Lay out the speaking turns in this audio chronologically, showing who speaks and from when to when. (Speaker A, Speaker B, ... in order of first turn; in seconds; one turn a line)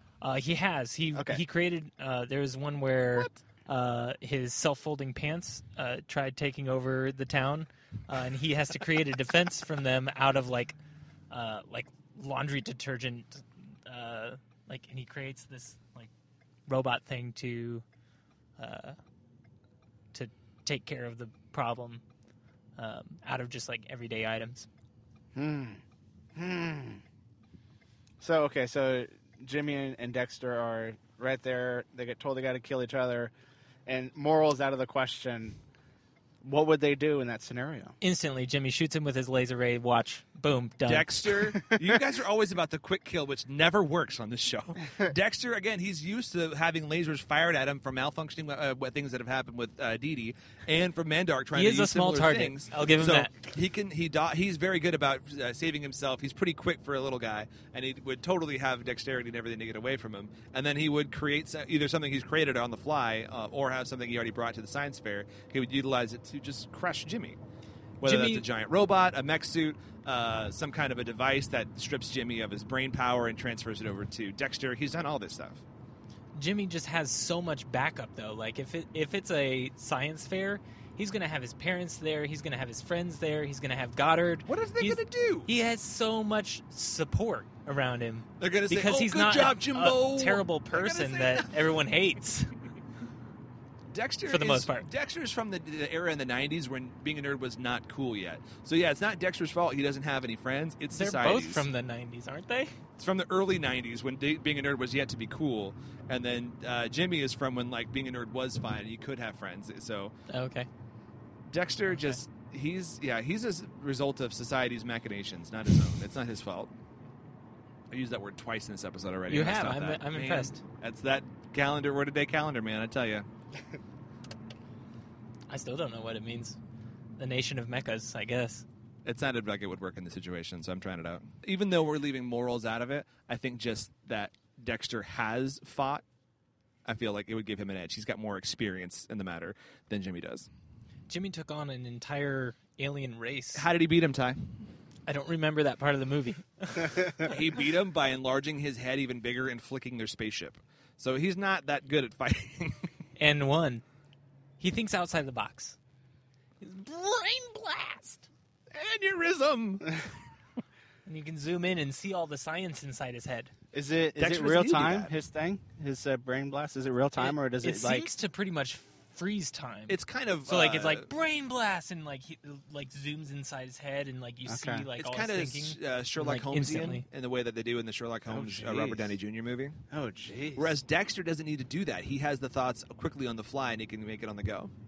Speaker A: 0.2-10.8
Speaker B: 1.1-1.4
Speaker A: 11.3-16.1
Speaker A: 16.7-17.9
Speaker A: 18.6-19.0
Speaker A: 20.1-22.0
Speaker A: 22.8-24.7
Speaker B: 25.4-25.8
Speaker B: 26.4-27.0
Speaker B: 28.2-33.3
Speaker B: 33.9-35.6
Speaker B: 36.4-37.9
Speaker A: 38.0-41.4
Speaker C: 40.9-67.4
Speaker A: 51.5-53.3
Speaker C: 68.0-75.6
Speaker A: 68.0-68.5
Speaker A: 76.3-92.6
Speaker C: 84.5-85.5
Speaker C: 88.4-91.5
Speaker C: 93.9-101.7
Speaker A: 94.2-94.9
Speaker A: 101.0-102.8
Speaker C: 103.0-110.1
Speaker A: 110.3-110.7
Speaker C: 111.5-116.7
Speaker A: 111.9-112.2
Speaker C: 117.9-123.3
Speaker A: 119.3-120.6
Speaker A: 125.5-126.6
Speaker A: 127.2-128.6
Speaker C: 129.1-136.0
Speaker C: 136.8-140.5
Speaker A: 141.1-143.7
Speaker C: 143.6-144.7
Speaker A: 145.1-147.4
Speaker C: 147.2-152.9
Speaker A: 153.2-153.8
Speaker A: 154.6-155.8
Speaker A: 156.6-158.3
Speaker C: 158.7-160.1
Speaker A: 161.1-163.5
Speaker B: 163.7-168.1
Speaker C: 164.2-165.1
Speaker A: 167.2-177.1
Speaker C: 169.9-171.1
Speaker B: 174.5-174.9
Speaker C: 175.0-179.8
Speaker B: 178.3-179.2
Speaker B: 179.9-180.8
Speaker C: 180.6-184.7